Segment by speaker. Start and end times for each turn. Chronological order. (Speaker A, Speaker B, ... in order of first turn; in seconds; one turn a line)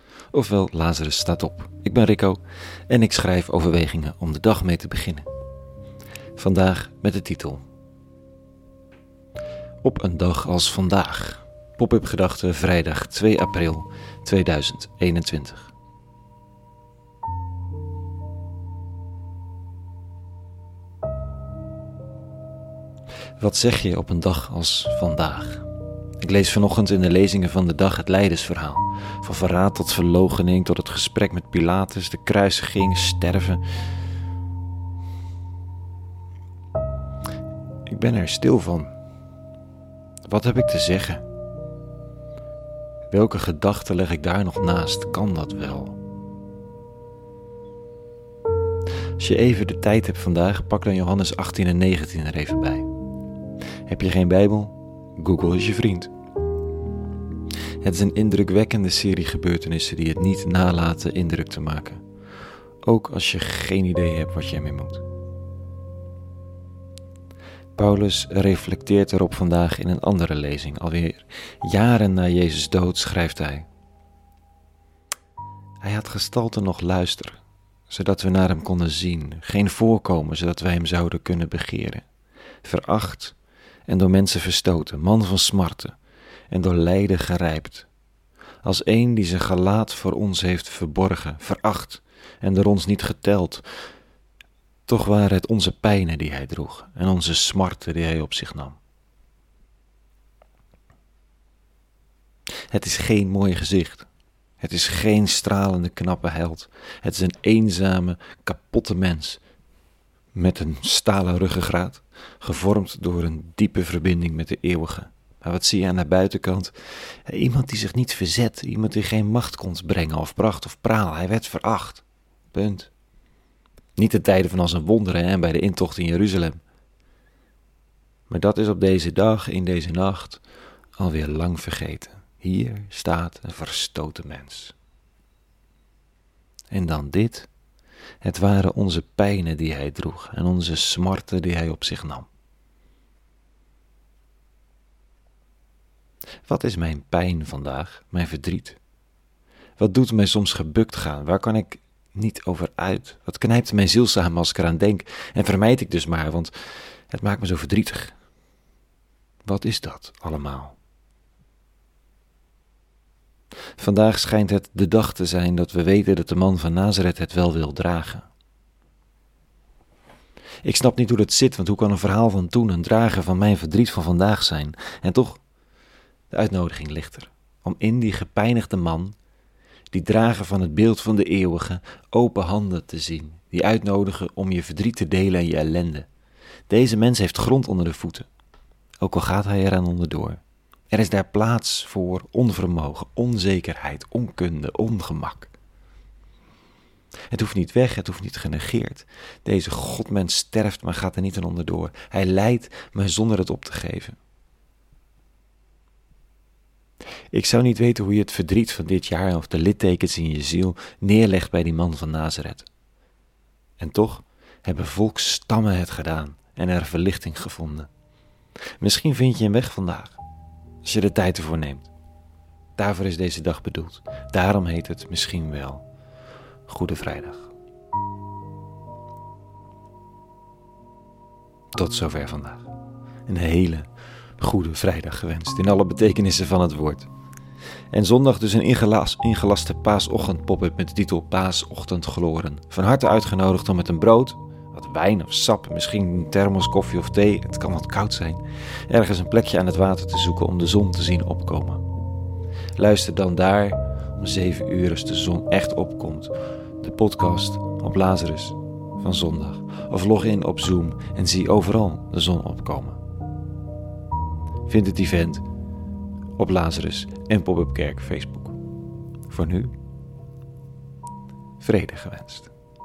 Speaker A: 0.3-5.3
Speaker A: 6.4-7.6
Speaker A: 9.8-15.7
Speaker A: 23.4-25.7
Speaker A: 26.2-33.6
Speaker A: 37.9-38.9
Speaker A: 40.3-41.2
Speaker A: 43.1-46.0
Speaker A: 49.2-52.9
Speaker A: 53.9-56.1
Speaker A: 57.8-62.0
Speaker A: 62.8-65.0
Speaker A: 67.8-73.7
Speaker A: 75.8-82.0
Speaker A: 82.6-83.3
Speaker A: 83.9-86.0
Speaker A: 86.5-87.9
Speaker A: 88.6-93.7
Speaker A: 94.9-98.8
Speaker A: 102.7-104.1
Speaker A: 104.6-109.4
Speaker A: 110.3-122.9
Speaker A: 124.0-126.6
Speaker A: 128.3-130.4
Speaker A: 131.0-134.8
Speaker A: 136.7-137.5
Speaker A: 138.2-142.3
Speaker A: 146.4-148.8
Speaker A: 149.8-156.5
Speaker A: 157.1-158.2
Speaker A: 159.4-160.8
Speaker A: 163.8-168.3
Speaker A: 170.6-175.4
Speaker A: 176.3-179.2
Speaker A: 179.9-186.1
Speaker A: 186.7-188.3
Speaker A: 189.0-195.5
Speaker A: 197.3-204.2
Speaker A: 207.3-212.7
Speaker A: 213.8-217.9
Speaker A: 218.8-220.2
Speaker A: 220.8-221.9
Speaker A: 222.8-225.8
Speaker A: 226.7-227.5
Speaker A: 231.8-232.7
Speaker A: 233.3-237.1
Speaker A: 237.9-251.8
Speaker A: 252.8-263.0
Speaker A: 264.7-265.4
Speaker A: 266.4-268.6
Speaker A: 269.3-269.8
Speaker A: 271.6-272.5